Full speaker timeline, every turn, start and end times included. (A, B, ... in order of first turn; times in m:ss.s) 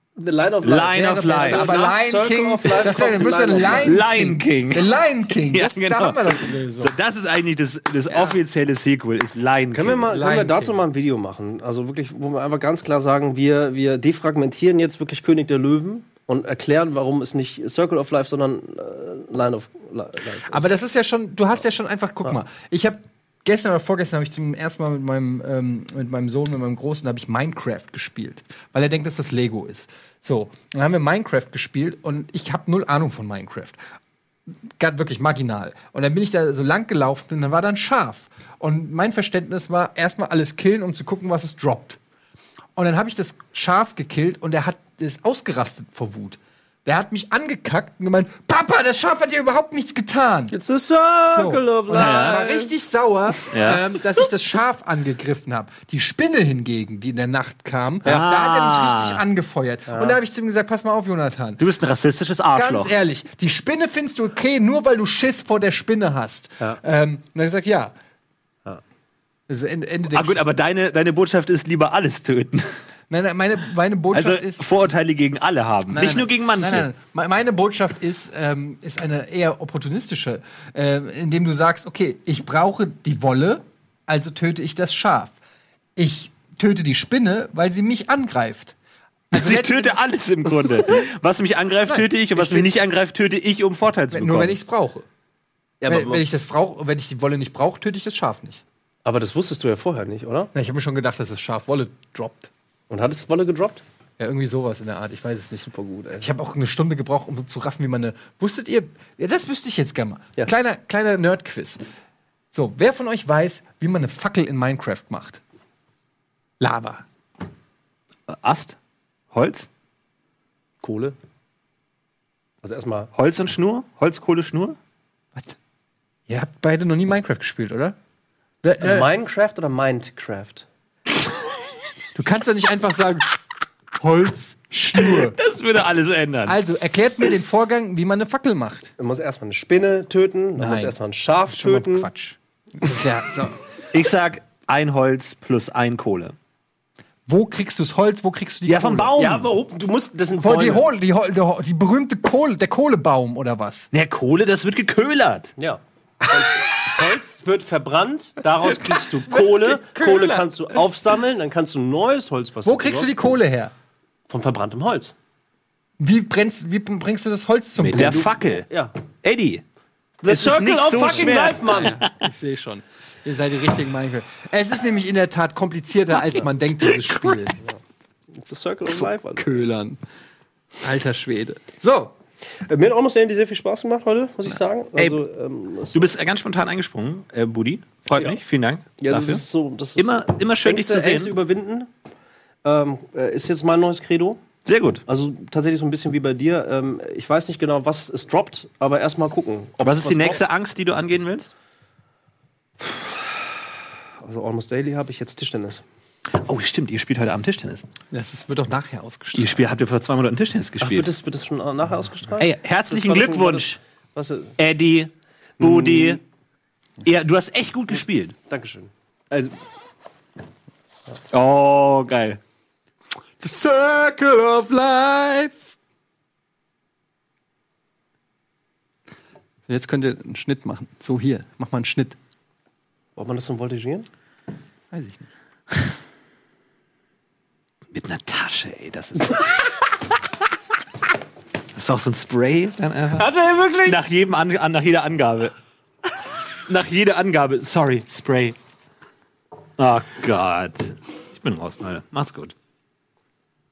0:00.2-0:04.0 A
0:00.6-0:01.8 B
0:00.9-0:06.9 C
0:03.6-0:05.0 B
0:05.5-0:10.1 B
0:08.1-0:08.4 C
0:09.7-0:20.7 A
0:10.1-0:10.8 C
0:20.5-0:33.8 C
0:34.8-0:42.0 C
0:42.8-0:50.6 C
0:50.5-0:52.7 A
0:51.2-1:01.6 C
0:51.9-0:52.4 B
0:53.5-0:53.8 B
0:58.0-0:59.2 B
0:59.9-1:00.2 A
1:01.6-1:02.9 B
1:02.6-1:07.9 C
1:09.5-1:10.5 C
1:10.1-1:12.7 B
1:13.1-1:14.7 C
1:14.1-1:16.9 B
1:15.9-1:25.4 C
1:26.0-1:28.8 C
1:29.3-1:30.1 C
1:29.3-1:34.6 B
1:31.8-1:32.7 C
1:34.1-1:35.1 C
1:35.8-1:36.2 A
1:35.9-1:38.6 C
1:39.0-1:40.5 A
1:40.5-1:42.5 C
1:42.9-1:43.8 A
1:44.2-1:45.6 C
1:45.5-1:46.3 A
1:46.2-1:51.8 C
1:52.5-1:55.4 C
1:56.6-1:57.0 C
1:58.3-1:58.8 B
1:59.3-1:59.7 B
2:00.8-2:01.1 A
2:02.6-2:03.1 A
2:03.1-2:04.8 B
2:06.3-2:08.0 C
2:08.6-2:09.1 C
2:08.8-2:10.7 A
2:12.1-2:13.3 C
2:14.0-2:15.4 C
2:15.0-2:16.6 B
2:16.4-2:18.9 C
2:19.0-2:22.1 A
2:20.6-2:21.0 C
2:21.5-2:23.6 C
2:23.9-2:26.3 B
2:27.3-2:29.2 C
2:28.7-2:29.5 B
2:29.2-2:30.9 A
2:30.4-2:33.9 C
2:33.9-2:35.5 B
2:35.6-2:43.1 A
2:39.6-2:40.4 C
2:42.6-2:43.7 C
2:44.3-2:45.1 A
2:46.0-2:48.4 C
2:47.8-2:48.7 B
2:48.7-2:48.9 A
2:49.2-2:49.6 B
2:50.2-2:52.0 A
2:50.3-2:52.1 B
2:51.1-2:57.6 C
2:56.8-2:57.4 B
2:58.4-2:59.6 A
2:59.4-3:00.0 C
3:00.8-3:02.1 C
3:02.6-3:06.1 A
3:05.9-3:09.4 B
3:09.0-3:11.9 A
3:10.0-3:11.4 B
3:12.6-3:14.4 A
3:14.6-3:15.0 B
3:15.1-3:20.4 A
3:19.8-3:21.5 B
3:22.8-3:23.2 A
3:24.2-3:25.8 A
3:26.3-3:27.8 B
3:28.1-3:29.7 C
3:29.4-3:31.1 B
3:30.8-3:34.6 A
3:32.4-3:33.8 B
3:34.6-3:36.2 B
3:35.6-3:36.2 A
3:37.0-3:38.4 B
3:38.5-3:39.6 A
3:41.3-3:42.4 B
3:43.4-3:45.6 C
3:49.7-3:52.2 C
3:53.2-3:54.1 A
3:54.9-3:55.3 C
3:57.9-3:59.7 B
4:01.7-4:05.5 B
4:03.2-4:04.0 A
4:06.7-4:08.6 B
4:09.8-4:12.5 B